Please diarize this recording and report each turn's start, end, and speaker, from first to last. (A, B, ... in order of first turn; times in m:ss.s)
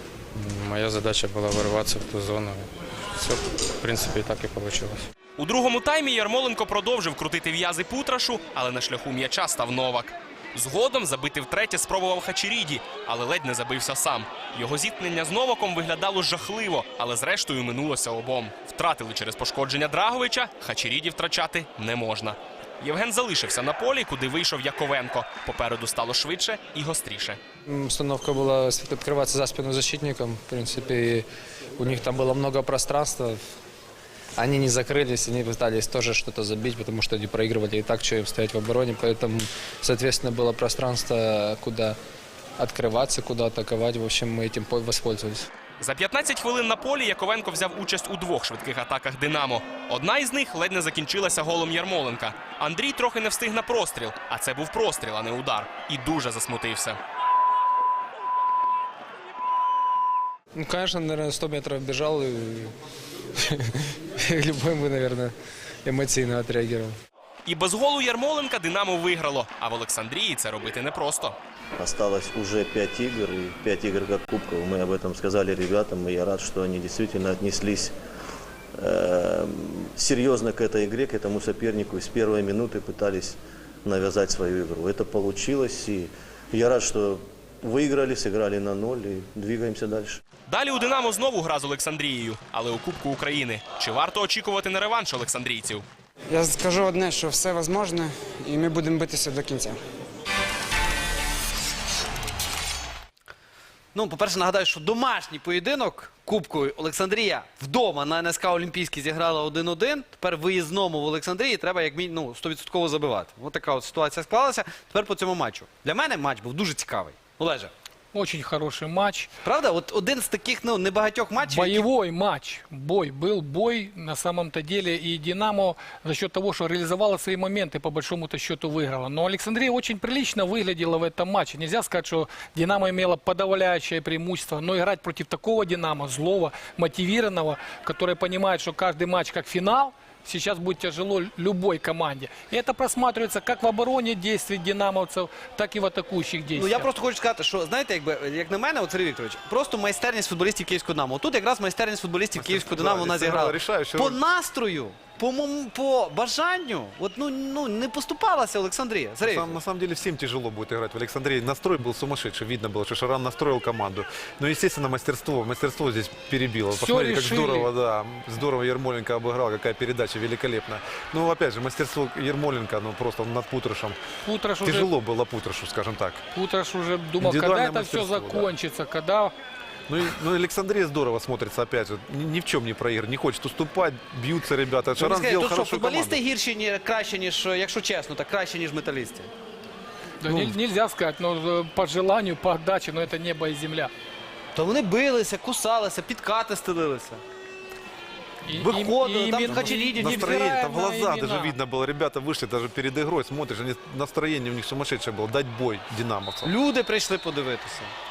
0:00.3-0:05.1 A
0:05.4-0:27.4 B
0:27.7-0:31.2 C
0:31.8-0:33.4 C
0:34.4-0:42.0 C
0:42.6-0:45.5 C
0:45.8-0:57.0 B
1:00.5-1:02.7 C
1:03.4-1:05.3 C
1:05.8-1:06.9 C
1:07.4-1:11.4 B
1:11.8-1:17.9 D
1:18.8-1:30.2 D
1:30.5-1:35.8 B
1:36.3-1:39.8 E
1:43.9-1:57.7 F
1:58.1-1:59.3 G
1:59.4-2:01.8 F
2:01.4-2:26.9 G
2:26.5-2:39.6 F
2:32.4-2:34.2 H
2:39.2-2:54.0 H
2:46.7-2:47.7 G
2:54.2-2:54.9 G
2:54.6-2:56.2 H
2:56.3-2:59.3 G
2:57.2-2:58.5 H
2:59.9-3:06.2 H
3:05.0-3:09.3 F
3:10.2-3:13.9 G
3:10.2-3:10.6 H
3:14.5-3:17.2 F
3:18.4-3:21.6 G
3:18.5-3:18.8 H
3:18.8-3:20.5 F
3:19.5-3:26.5 H
3:26.4-3:27.9 F